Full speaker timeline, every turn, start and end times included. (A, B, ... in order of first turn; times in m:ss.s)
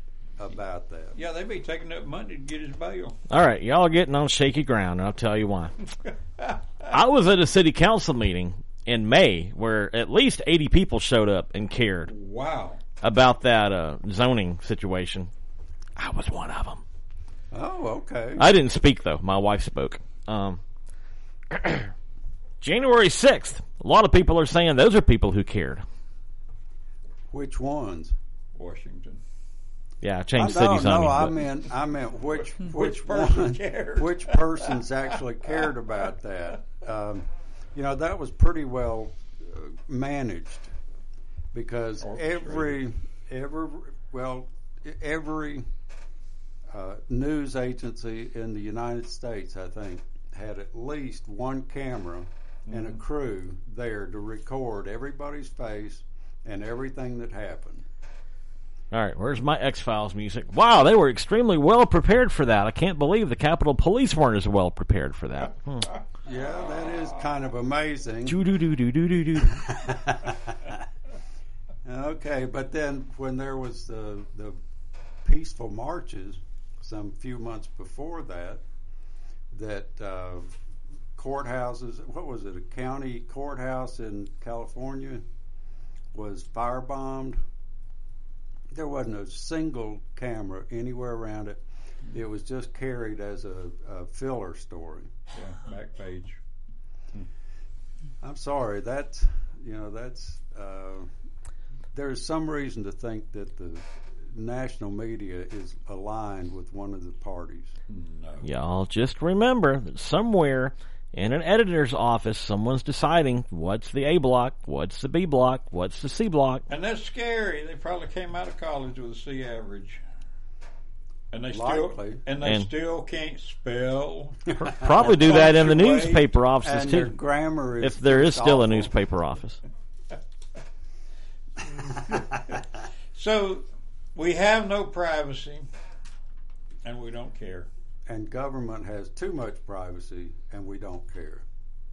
0:00.4-0:01.2 A
0:01.2-0:03.2 B
0:03.3-0:05.7 C
0:06.4-0:06.9 B
0:06.9-0:12.1 C
0:12.1-0:12.8 B
0:13.0-0:15.3 C
0:16.0-0:16.8 C
0:17.5-0:18.4 A
0:18.4-0:20.6 C
0:21.5-0:21.9 C
0:22.6-0:25.8 C
0:27.3-0:28.1 A
0:28.5-0:29.2 B
0:30.0-0:31.5 C
0:30.4-0:40.7 A
0:32.5-0:34.9 B
0:41.5-0:45.7 A
0:42.0-0:42.8 B
0:46.7-0:57.8 A
0:52.7-0:53.0 B
0:58.9-1:05.9 C
1:06.2-1:08.4 A
1:06.6-1:07.1 B
1:08.2-1:09.8 C
1:09.4-1:10.8 A
1:11.8-1:14.6 A
1:15.2-1:18.6 A
1:19.5-1:20.5 A
1:21.1-1:25.2 A
1:26.1-1:27.4 A
1:28.7-1:35.1 A
1:35.3-1:36.4 B
1:38.2-1:41.1 A
1:41.9-1:47.7 A
1:47.9-1:48.5 B
1:48.4-1:56.6 C
1:56.7-2:00.0 B
2:01.3-2:06.3 B
2:01.5-2:02.2 A
2:02.4-2:02.7 C
2:04.6-2:05.2 A
2:04.6-2:07.2 C
2:06.6-2:08.9 A
2:07.8-2:09.6 C
2:11.6-2:12.6 B
2:11.9-2:12.4 A
2:13.1-2:15.7 B
2:16.8-2:17.7 B
2:18.1-2:21.4 A